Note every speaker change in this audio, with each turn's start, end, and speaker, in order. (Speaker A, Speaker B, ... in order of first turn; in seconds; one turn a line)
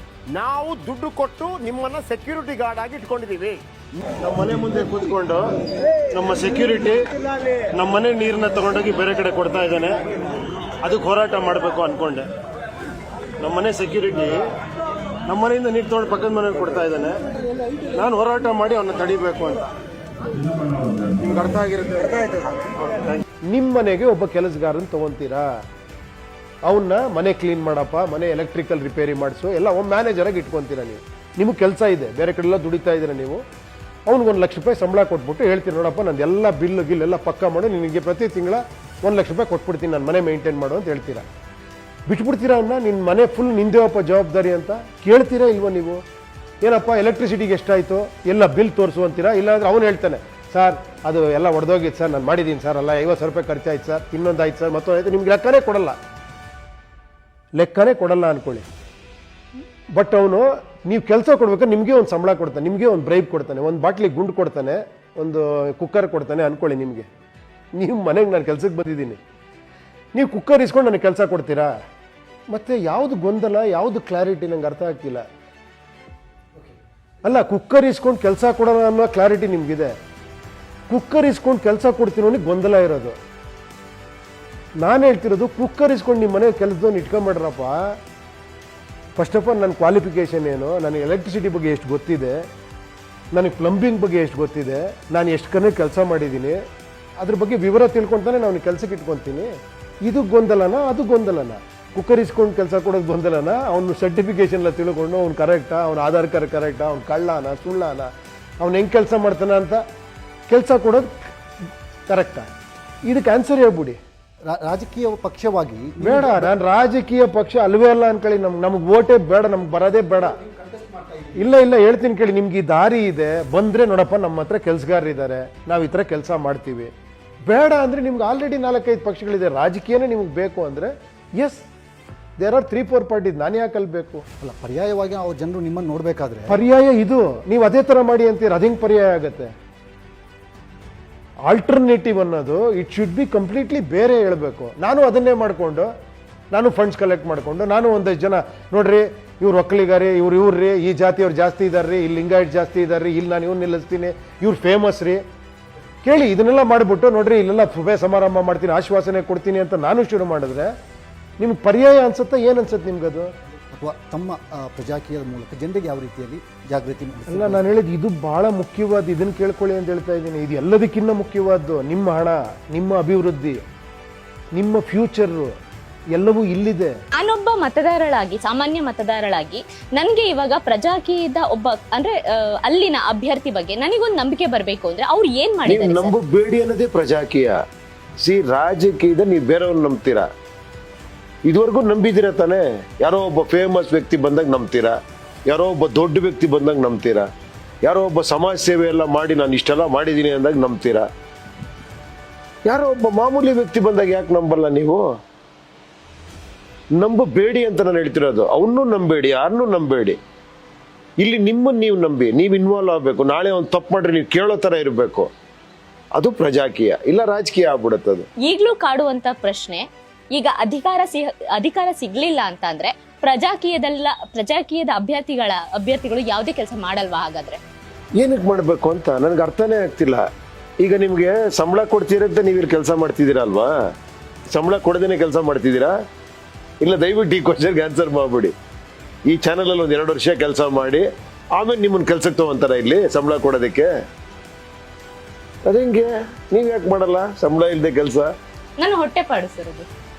Speaker A: 0.3-3.6
Speaker A: 4.2-5.3
Speaker B: 5.0-5.3
Speaker B: 6.2-6.6
Speaker A: 6.4-7.0
Speaker A: 7.8-9.9
Speaker B: 7.8-9.8
Speaker A: 10.9-12.0
Speaker B: 10.9-12.2
Speaker B: 13.4-13.9
Speaker A: 13.5-14.4
Speaker B: 15.3-17.1
Speaker A: 15.3-17.1
Speaker A: 17.9-19.6
Speaker B: 18.0-19.6
Speaker A: 21.3-22.1
Speaker B: 23.5-25.5
Speaker B: 26.6-33.4
Speaker B: 34.1-41.2
Speaker A: 35.8-37.1
Speaker A: 37.6-38.3
Speaker B: 42.1-46.0
Speaker B: 46.6-56.0
Speaker B: 57.6-58.6
Speaker B: 60.0-67.1
Speaker B: 67.8-69.2
Speaker B: 70.1-71.7
Speaker B: 72.5-75.2
Speaker B: 77.2-79.9
Speaker B: 80.9-83.2
Speaker B: 84.8-87.8
Speaker B: 89.2-92.4
Speaker B: 93.3-96.6
Speaker B: 97.2-99.5
Speaker B: 100.0-109.8
Speaker B: 110.5-111.3
Speaker B: 112.1-112.5
Speaker B: 113.1-114.0
Speaker C: 114.5-116.5
Speaker B: 116.0-120.2
Speaker C: 120.2-121.5
Speaker B: 121.4-126.9
Speaker B: 127.5-131.6
Speaker B: 132.4-134.2
Speaker C: 134.4-136.6
Speaker B: 136.5-139.5
Speaker B: 141.5-145.9
Speaker B: 146.5-155.2
Speaker B: 156.0-160.7
Speaker B: 161.4-163.3
Speaker C: 163.7-167.7
Speaker B: 167.3-173.6
Speaker B: 174.6-175.5
Speaker B: 176.1-176.9
Speaker D: 177.2-186.2
Speaker A: 186.1-187.5
Speaker A: 188.2-190.2
Speaker A: 191.5-194.9
Speaker A: 195.5-197.2
Speaker A: 197.9-201.0
Speaker A: 202.7-205.0
Speaker A: 207.0-210.2
Speaker A: 211.3-215.3
Speaker A: 216.2-218.2
Speaker D: 218.4-227.6
Speaker A: 228.3-230.2
Speaker A: 230.8-233.7
Speaker A: 234.5-235.9
Speaker A: 236.8-238.5
Speaker A: 239.3-241.0
Speaker A: 241.6-243.9
Speaker A: 246.6-248.3
Speaker D: 248.8-249.9